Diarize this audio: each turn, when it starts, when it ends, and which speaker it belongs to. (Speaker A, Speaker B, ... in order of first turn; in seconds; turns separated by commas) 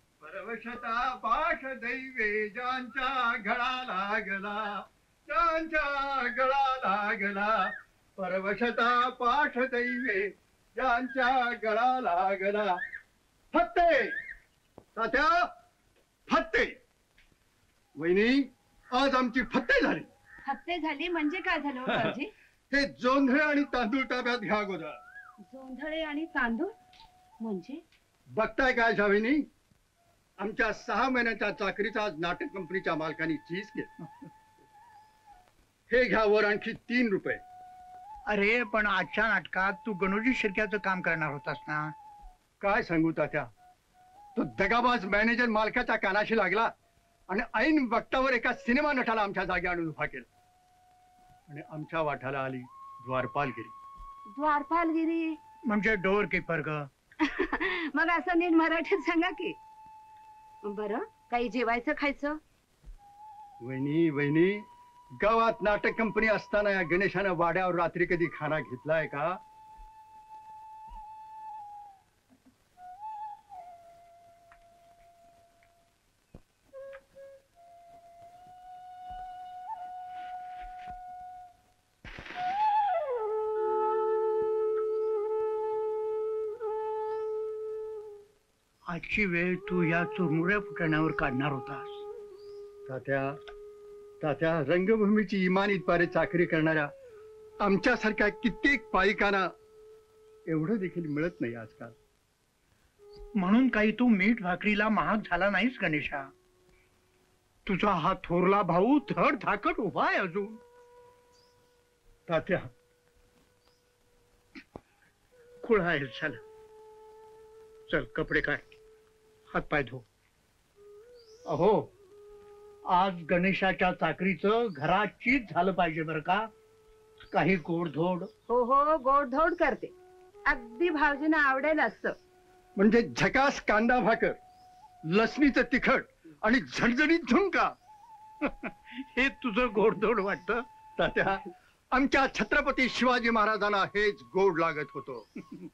Speaker A: 0.2-4.7, Speaker A: 5.3-12.8, Speaker A: 13.5-14.1, Speaker A: 14.9-15.5, Speaker A: 16.3-16.7, Speaker A: 17.9-20.1, Speaker B: 20.4-22.3, Speaker A: 21.9-22.1, Speaker A: 22.7-25.0, Speaker B: 25.4-26.7, Speaker B: 27.4-27.8, Speaker A: 28.3-29.4, Speaker A: 30.4-33.9, Speaker A: 35.9-37.4, Speaker C: 38.3-41.9, Speaker A: 42.6-43.5, Speaker A: 44.3-46.7, Speaker A: 47.3-50.3, Speaker A: 51.5-53.7, Speaker B: 54.3-55.4, Speaker C: 55.7-56.9, Speaker B: 57.2-59.5, Speaker B: 60.6-62.4, Speaker A: 63.6-64.6, Speaker A: 65.2-69.3, Speaker C: 88.9-92.0, Speaker A: 92.8-93.3, Speaker A: 94.2-96.9, Speaker A: 97.6-99.5, Speaker A: 100.5-101.9, Speaker C: 103.4-106.3, Speaker C: 107.7-110.6, Speaker C: 112.3-112.7, Speaker C: 115.6-116.4, Speaker C: 117.9-118.7, Speaker C: 119.5-120.0, Speaker C: 121.5-121.9, Speaker C: 122.9-126.5, Speaker C: 127.3-128.3, Speaker B: 128.5-129.9, Speaker B: 130.5-132.1, Speaker A: 132.8-134.4, Speaker A: 135.1-137.7, Speaker C: 138.4-140.6, Speaker A: 141.0-145.2